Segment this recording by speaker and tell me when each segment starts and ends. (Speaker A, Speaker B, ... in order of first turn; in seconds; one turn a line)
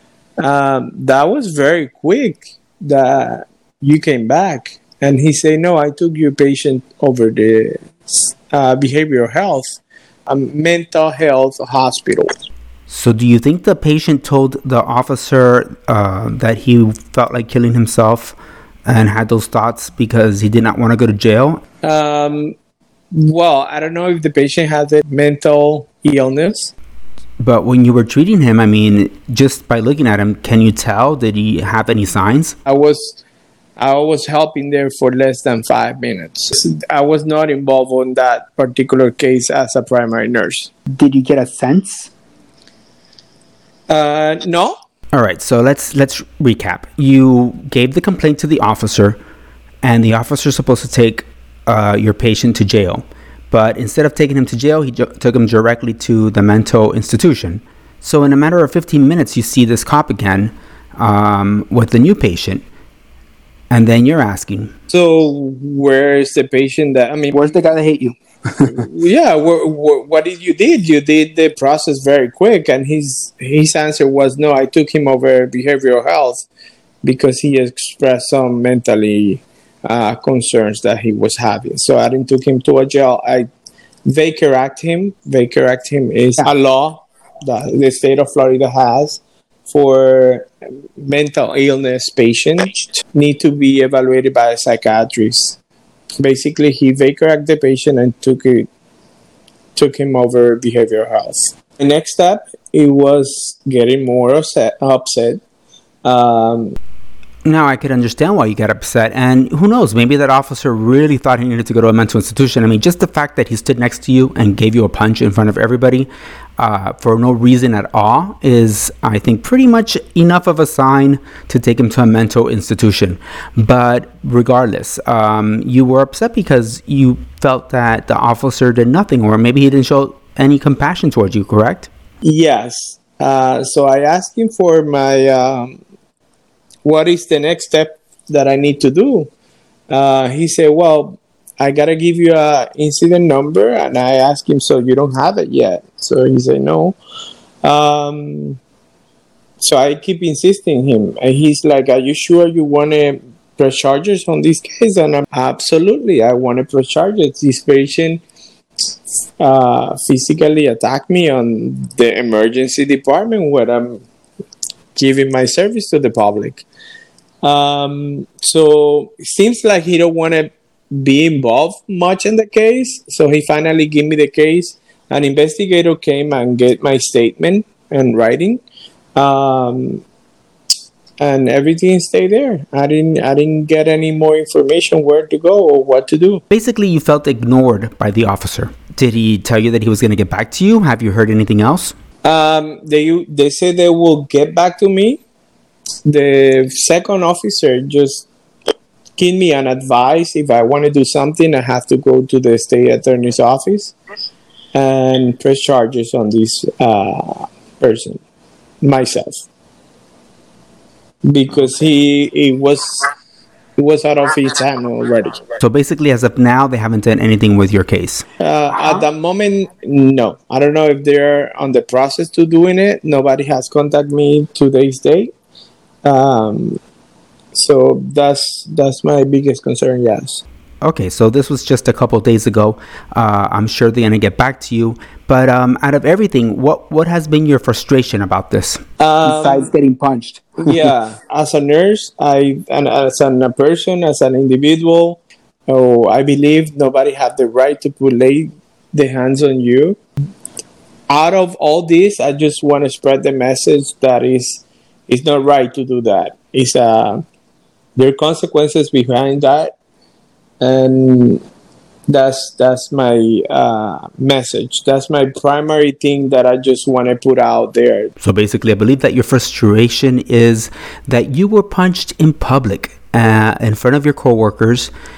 Speaker A: 0.4-12.3
Speaker B: 12.9-21.6
Speaker A: 21.8-22.5
Speaker A: 23.1-26.7
Speaker B: 27.4-32.5
Speaker A: 32.6-33.2
Speaker A: 33.8-40.7
Speaker B: 40.9-42.1
Speaker A: 43.9-44.7
Speaker B: 45.1-49.2
Speaker B: 49.8-62.6
Speaker B: 63.7-64.7
Speaker A: 64.9-67.6
Speaker B: 67.3-68.8
Speaker A: 68.6-76.5
Speaker A: 77.0-83.5
Speaker A: 84.0-95.6
Speaker A: 96.2-98.7
Speaker A: 99.7-105.4
Speaker A: 106.0-106.8
Speaker B: 107.4-131.9
Speaker A: 132.2-135.8
Speaker A: 136.8-139.3
Speaker A: 139.9-147.0
Speaker A: 147.6-148.6
Speaker A: 149.6-158.2
Speaker A: 159.4-164.0
Speaker A: 164.9-166.6
Speaker A: 167.4-178.6
Speaker A: 179.2-180.0
Speaker A: 181.2-186.4
Speaker B: 186.5-191.9
Speaker A: 192.2-195.2
Speaker A: 196.0-198.3
Speaker A: 199.2-203.9
Speaker A: 204.7-208.2
Speaker A: 208.8-209.4
Speaker A: 211.3-213.1
Speaker A: 213.8-215.5
Speaker B: 215.6-218.2
Speaker A: 218.4-225.3
Speaker A: 226.0-226.8
Speaker A: 227.5-230.4
Speaker B: 230.8-240.9
Speaker A: 239.0-239.7
Speaker A: 240.6-250.0
Speaker A: 251.1-257.2
Speaker A: 257.9-259.7
Speaker A: 260.6-261.4
Speaker A: 262.1-268.1
Speaker B: 268.2-274.9